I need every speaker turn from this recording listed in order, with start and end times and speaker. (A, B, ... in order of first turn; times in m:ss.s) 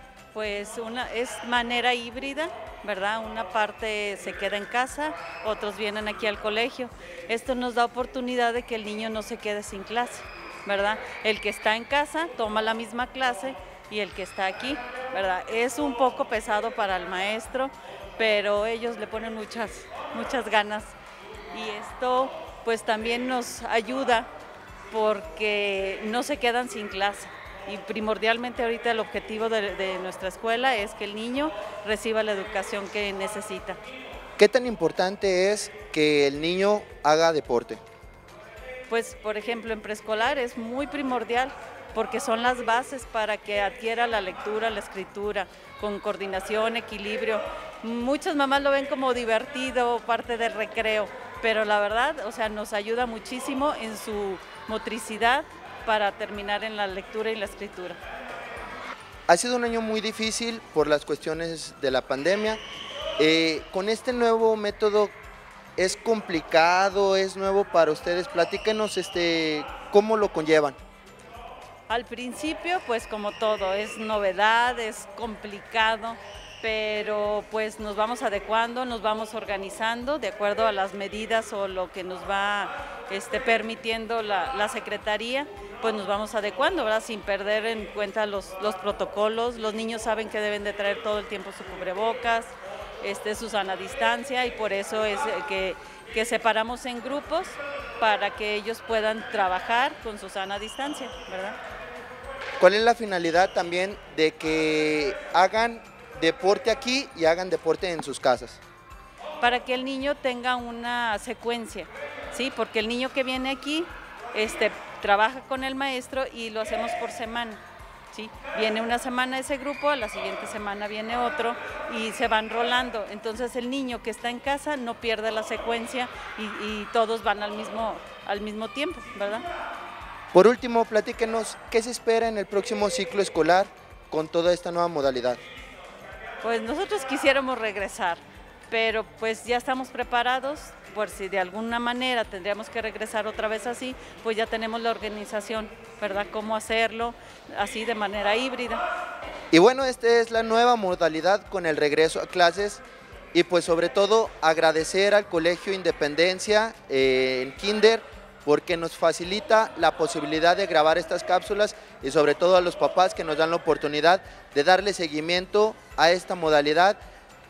0:00.3-0:21.0 A
0:21.5-0:24.3 A
0:24.9-0:33.8 A
0:34.4-0:37.8 B
0:38.9-0:58.0 A
0:59.3-1:02.6 B
1:03.2-1:05.2 B
1:05.8-1:10.8 B
1:11.9-1:41.6 A
1:42.6-1:48.6 B
1:49.4-2:09.4 A
2:10.3-2:15.4 B
2:16.4-2:28.8 A
2:29.5-2:32.8 B
2:33.3-2:47.0 B